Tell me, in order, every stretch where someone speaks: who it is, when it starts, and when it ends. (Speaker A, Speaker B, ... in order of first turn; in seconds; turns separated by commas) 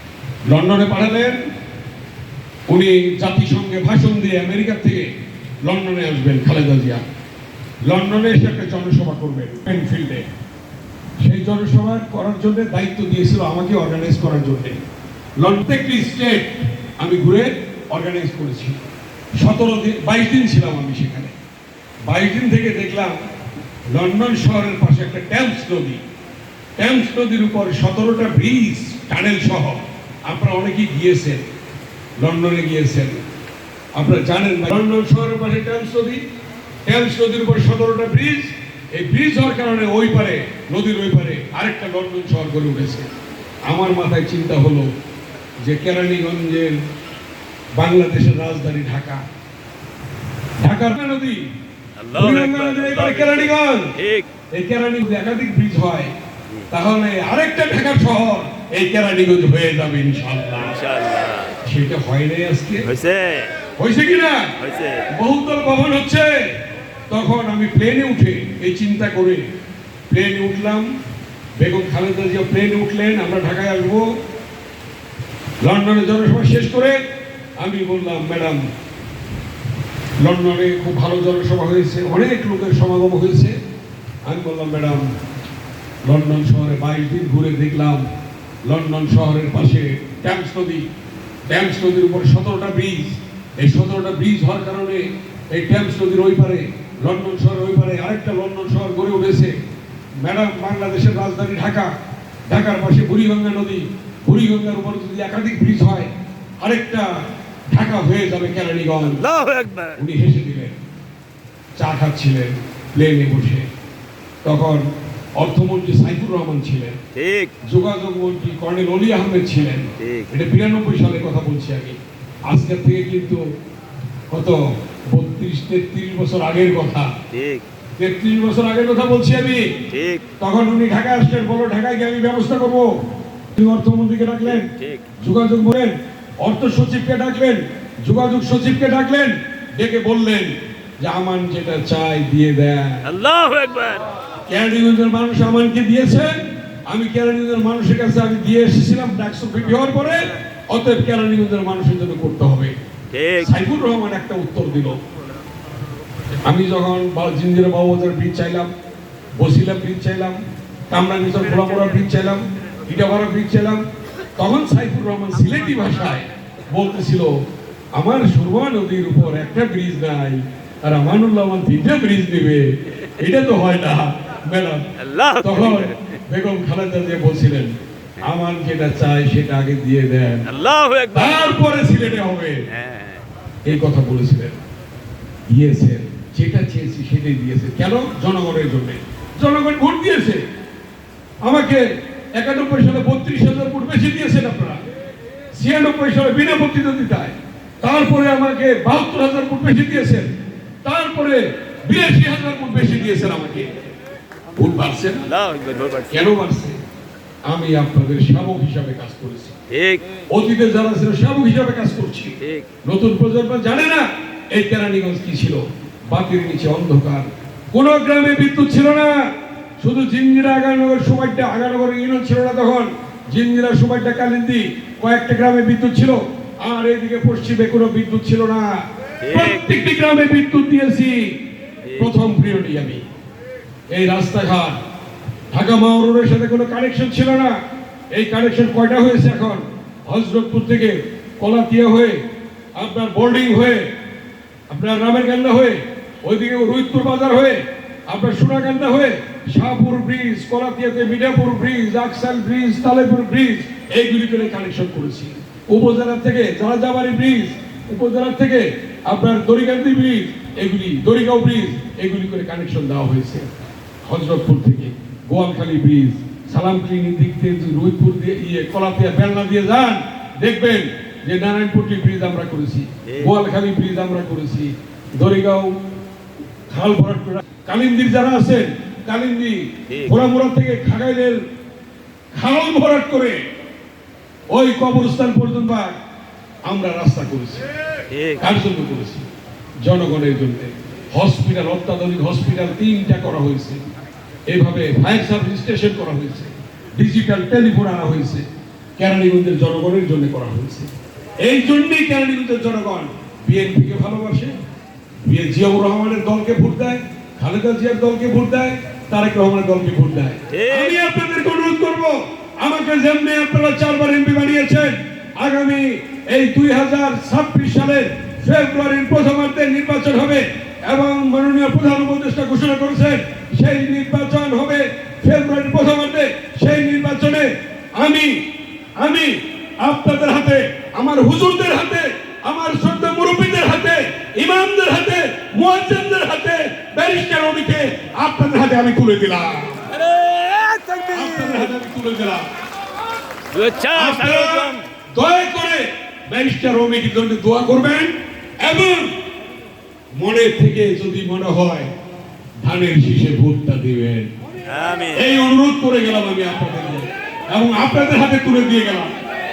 Speaker A: 0.5-1.4, Speaker A: 2.7-5.1, Speaker A: 5.6-7.0, Speaker A: 7.9-10.3, Speaker A: 11.2-14.8, Speaker A: 15.4-18.8, Speaker A: 19.4-21.3, Speaker A: 22.1-23.2, Speaker A: 23.9-26.0, Speaker A: 26.8-31.4, Speaker A: 32.2-33.2, Speaker A: 34.0-36.2, Speaker A: 36.9-43.1, Speaker A: 43.7-44.9, Speaker A: 45.6-46.8, Speaker A: 47.8-49.2, Speaker A: 50.6-51.5, Speaker B: 52.0-54.3, Speaker A: 52.1-54.0, Speaker A: 54.5-56.1, Speaker A: 56.7-60.8, Speaker B: 60.6-61.5, Speaker A: 61.6-62.9, Speaker B: 62.8-63.5, Speaker A: 63.8-64.5, Speaker B: 64.6-65.1, Speaker A: 65.1-66.5, Speaker A: 67.1-69.5, Speaker A: 70.1-70.9, Speaker A: 71.6-74.1, Speaker A: 75.6-77.0, Speaker A: 77.6-78.6, Speaker A: 80.2-83.5, Speaker A: 84.2-85.0, Speaker A: 86.0-88.0, Speaker A: 88.6-90.8, Speaker A: 91.5-99.5, Speaker A: 100.2-101.9, Speaker A: 102.5-109.2, Speaker B: 109.2-110.0, Speaker A: 110.0-110.8, Speaker A: 111.8-113.7, Speaker A: 114.4-114.8, Speaker A: 115.4-117.0, Speaker B: 117.1-117.5, Speaker A: 117.6-122.0, Speaker B: 120.0-120.3, Speaker A: 122.5-123.4, Speaker A: 124.3-127.1, Speaker B: 127.3-127.7, Speaker A: 128.0-129.7, Speaker B: 129.9-130.2, Speaker A: 130.4-132.9, Speaker A: 133.5-143.1, Speaker B: 134.6-135.1, Speaker B: 143.0-144.1, Speaker A: 144.5-152.7, Speaker B: 153.1-153.5, Speaker A: 153.4-155.0, Speaker A: 156.4-158.7, Speaker A: 159.4-160.4, Speaker A: 160.9-163.8, Speaker A: 164.4-167.4, Speaker A: 167.9-174.9, Speaker B: 175.0-176.0, Speaker A: 175.4-180.5, Speaker B: 180.4-181.5, Speaker A: 181.1-182.7, Speaker B: 182.7-183.2, Speaker A: 183.6-184.6, Speaker A: 185.5-190.4, Speaker A: 191.4-194.8, Speaker A: 195.5-200.3, Speaker A: 200.8-203.8, Speaker A: 204.6-205.3, Speaker B: 205.3-206.1, Speaker A: 206.1-206.8, Speaker A: 207.4-209.6, Speaker B: 209.7-210.1, Speaker A: 210.3-233.0, Speaker B: 212.4-212.7, Speaker B: 229.2-229.7, Speaker A: 233.9-234.8, Speaker A: 235.5-237.6, Speaker A: 238.1-242.2, Speaker A: 242.8-243.9, Speaker A: 244.7-263.5, Speaker A: 264.0-275.7, Speaker B: 273.1-273.3, Speaker A: 276.7-281.4, Speaker B: 279.9-280.1, Speaker A: 282.3-283.4, Speaker A: 284.5-285.9, Speaker A: 286.6-287.6, Speaker B: 288.1-288.4, Speaker A: 288.4-289.2, Speaker A: 289.8-293.8, Speaker A: 294.5-298.4, Speaker A: 299.0-300.9, Speaker A: 301.4-304.5, Speaker A: 305.2-328.4, Speaker B: 310.5-311.0, Speaker A: 329.0-339.9, Speaker B: 339.9-341.7, Speaker A: 341.1-342.4, Speaker B: 343.5-344.8, Speaker A: 343.9-349.1, Speaker A: 350.2-351.9, Speaker A: 352.6-354.3, Speaker B: 354.6-355.2, Speaker A: 355.1-359.1